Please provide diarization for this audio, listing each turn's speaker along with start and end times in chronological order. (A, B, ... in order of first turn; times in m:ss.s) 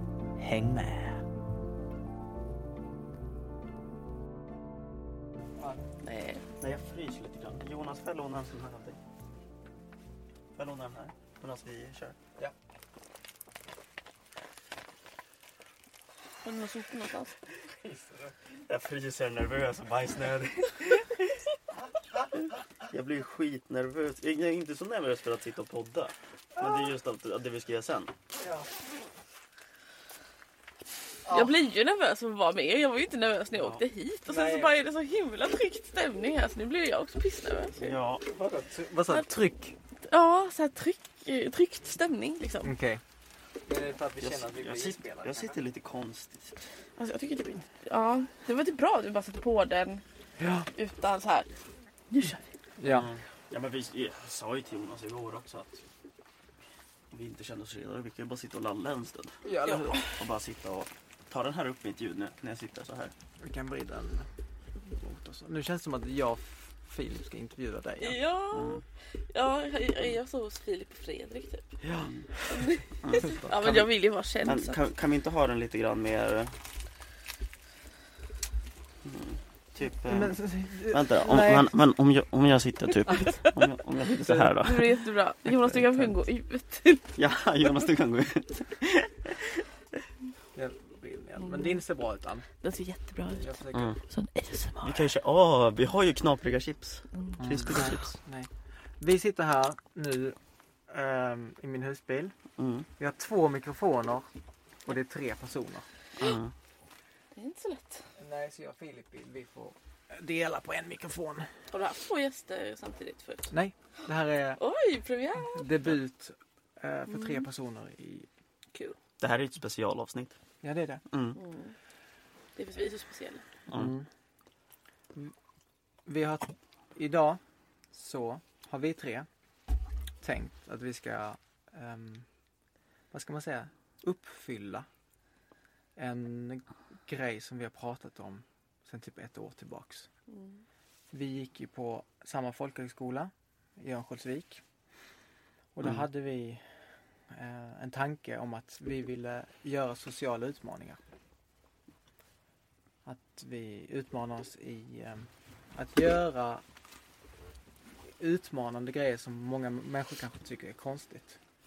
0:00.4-0:01.3 A
0:06.0-0:06.4 B
0:06.6-0:09.0 C
0:10.6-0:12.2 C
0:16.4-0:17.3 B
0:17.8-0:18.3 A
0:18.6-0:21.4 C
0:22.8-0:28.1 C
0:28.4-0:28.7 A
0:31.2-0:31.5 A
0:31.3-0:38.0 B
0:33.6-0:34.7 A
0:37.8-0:38.3 C
0:38.3-0:39.8 A
0:40.0-0:42.7 B
0:42.6-0:43.0 A
0:43.6-0:45.6 A
0:44.2-0:46.6 C
0:47.0-0:50.0 B
0:50.4-0:50.7 A
0:50.7-0:51.6 B
0:52.2-0:55.8 C
0:52.8-0:53.1 A
0:57.1-0:59.4 C
0:59.4-1:00.2 A
0:59.7-1:00.0 B
1:00.0-1:03.1 C
1:03.4-1:04.3 A
1:04.9-1:08.2 A
1:08.0-1:11.7 B
1:08.6-1:08.8 C
1:11.8-1:12.7 A
1:12.5-1:14.8 B
1:13.2-1:13.9 A
1:14.4-1:16.6 C
1:19.0-1:20.4 C
1:20.1-1:21.7 A
1:20.9-1:24.9 C
1:24.3-1:24.5 A
1:24.6-1:27.2 B
1:27.2-1:29.6 C
1:30.6-1:32.5 A
1:31.4-1:31.7 B
1:32.6-1:33.6 B
1:33.3-1:33.9 A
1:34.1-1:35.1 B
1:34.8-1:38.1 C
1:37.4-1:42.4 A
1:42.6-1:42.9 C
1:43.0-1:44.3 A
1:44.9-1:45.9 A
1:46.2-1:46.5 C
1:47.4-1:48.1 B
1:48.2-1:51.5 A
1:51.7-1:53.5 B
1:53.5-1:54.6 A
1:54.6-1:55.7 B
1:55.4-1:58.3 A
1:57.1-1:57.4 B
1:59.2-2:00.4 C
2:00.6-2:01.0 A
2:01.1-2:01.4 C
2:01.4-2:01.7 B
2:02.6-2:03.4 B
2:03.7-2:04.1 A
2:06.1-2:07.4 A
2:07.9-2:09.3 A
2:10.2-2:12.3 A
2:13.1-2:14.9 A
2:16.0-2:20.1 A
2:20.3-2:20.6 B
2:21.1-2:24.6 A
2:25.8-2:31.0 A
2:33.0-2:36.6 A
2:38.2-2:41.4 A